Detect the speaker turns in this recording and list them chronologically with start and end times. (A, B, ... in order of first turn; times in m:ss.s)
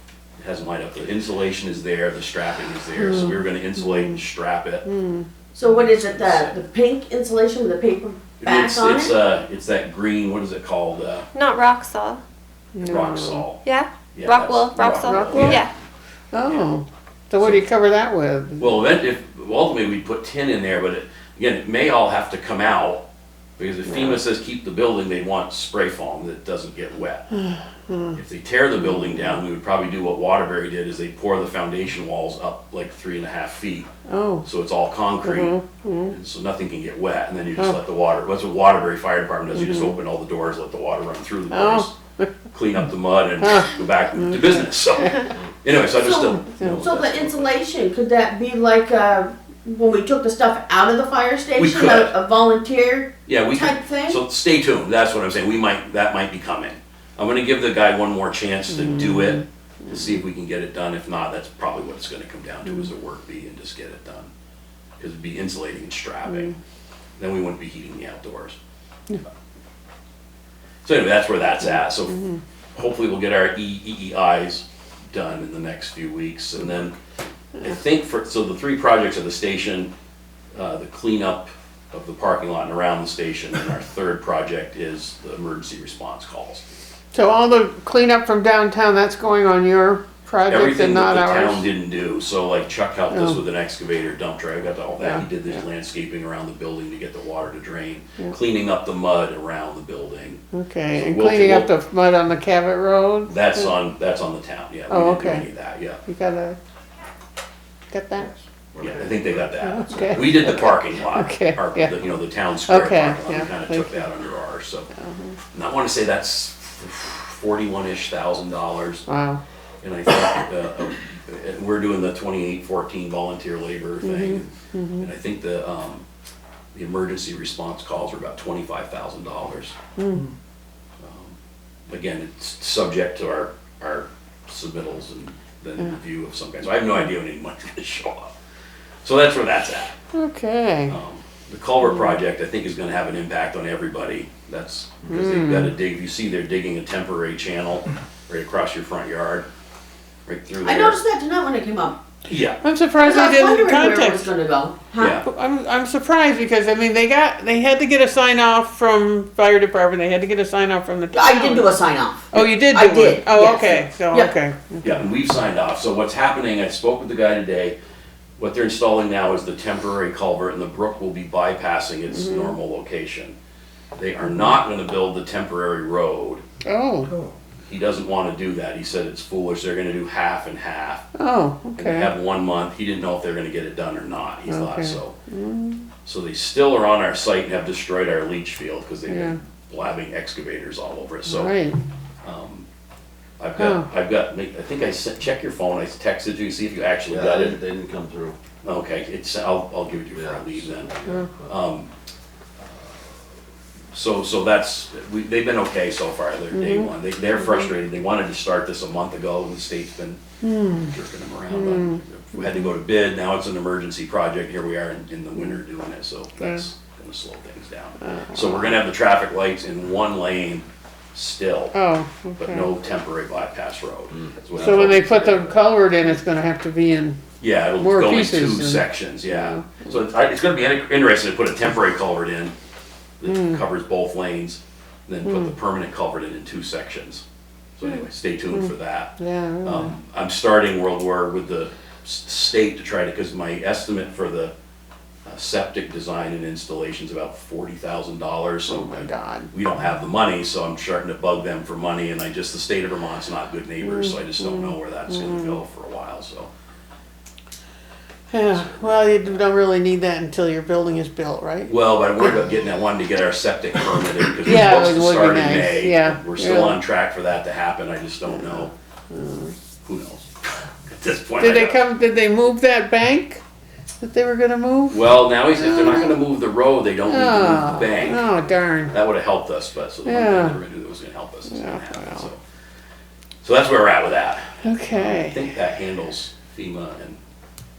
0:00.4-0:04.9 A
0:03.9-0:04.1 B
0:04.9-0:05.3 B
0:05.6-0:09.2 C
0:05.7-0:06.6 A
0:08.4-0:11.3 A
0:11.3-0:12.2 D
0:12.8-0:13.5 B
0:12.8-0:13.6 A
0:13.6-0:15.7 D
0:14.1-0:15.7 A
0:15.1-0:15.5 B
0:16.3-0:18.7 B
0:17.4-0:17.6 A
0:18.6-0:23.0 A
0:23.6-0:27.3 A
0:23.9-0:24.2 B
0:27.3-0:28.2 B
0:28.2-0:33.9 A
0:34.1-0:34.5 B
0:34.4-0:41.9 A
0:35.2-0:36.1 B
0:39.6-0:40.0 B
0:41.5-0:42.3 B
0:42.5-0:47.5 A
0:43.4-0:45.2 B
0:46.0-0:46.2 C
0:46.1-0:46.8 B
0:46.8-0:54.2 C
0:51.6-0:52.2 A
0:53.3-1:04.3 A
0:58.8-0:59.4 B
1:05.0-1:06.6 A
1:07.2-1:08.6 A
1:10.8-1:12.2 A
1:12.8-1:17.0 A
1:17.6-1:19.9 A
1:20.6-1:26.6 A
1:27.1-1:31.7 B
1:30.5-1:41.7 A
1:33.1-1:33.4 B
1:40.5-1:43.7 B
1:43.3-1:46.0 A
1:44.9-1:45.5 B
1:46.1-1:46.6 B
1:47.9-1:48.3 B
1:48.2-1:50.5 E
1:48.8-1:54.9 A
1:49.7-1:51.9 B
1:52.7-1:54.1 B
1:55.0-1:55.4 B
1:55.5-1:59.1 A
1:59.1-1:59.4 B
1:59.8-2:06.0 A
2:04.0-2:05.1 B
2:06.8-2:09.8 A
2:10.0-2:10.3 B
2:11.0-2:11.4 A
2:11.9-2:18.3 A
2:19.0-2:20.0 A
2:20.1-2:21.0 B
2:20.9-2:29.5 A
2:25.1-2:25.7 B
2:30.3-2:31.0 A
2:30.6-2:32.0 C
2:32.3-2:32.6 A
2:32.6-2:34.3 B
2:33.0-2:35.2 C
2:35.0-2:35.3 A
2:35.2-2:41.7 B
2:41.1-2:44.3 C
2:42.3-2:45.0 B
2:44.8-2:47.8 A
2:48.4-2:53.4 A
2:52.1-2:52.5 B
2:54.0-2:56.4 A
2:56.6-2:57.1 B
2:57.6-3:01.0 A
3:01.2-3:02.1 B
3:01.8-3:05.1 A
3:04.5-3:05.9 B
3:06.0-3:11.6 A
3:09.1-3:09.4 B
3:11.3-3:11.8 B
3:12.2-3:12.7 A
3:13.4-3:17.6 A
3:13.6-3:13.8 B
3:17.1-3:18.4 E
3:18.6-3:20.9 A
3:20.2-3:21.5 E
3:21.4-3:21.9 A
3:23.9-3:30.2 A
3:26.5-3:26.9 B
3:30.4-3:30.9 B
3:30.8-3:41.8 A
3:31.5-3:32.7 B
3:38.1-3:38.8 B
3:41.7-3:42.7 B
3:42.4-3:45.4 A
3:44.2-3:45.5 E
3:44.6-3:47.2 B
3:47.4-3:52.5 A
3:47.8-3:50.0 B
3:53.2-3:57.2 A
3:53.3-3:53.6 B
3:57.8-4:04.5 A
3:58.5-3:59.9 B
4:05.3-4:16.5 A
4:08.7-4:09.5 B
4:13.8-4:15.5 B
4:18.3-4:22.3 B
4:21.7-4:28.7 A
4:24.4-4:26.8 B
4:29.1-4:29.5 B
4:29.8-4:31.8 A
4:31.4-4:33.4 B
4:34.0-4:36.2 B
4:34.9-4:38.3 A
4:37.1-4:39.0 B
4:38.9-4:42.4 A
4:40.0-4:40.6 B
4:41.5-4:42.3 B
4:43.4-4:47.2 A
4:44.6-4:45.5 B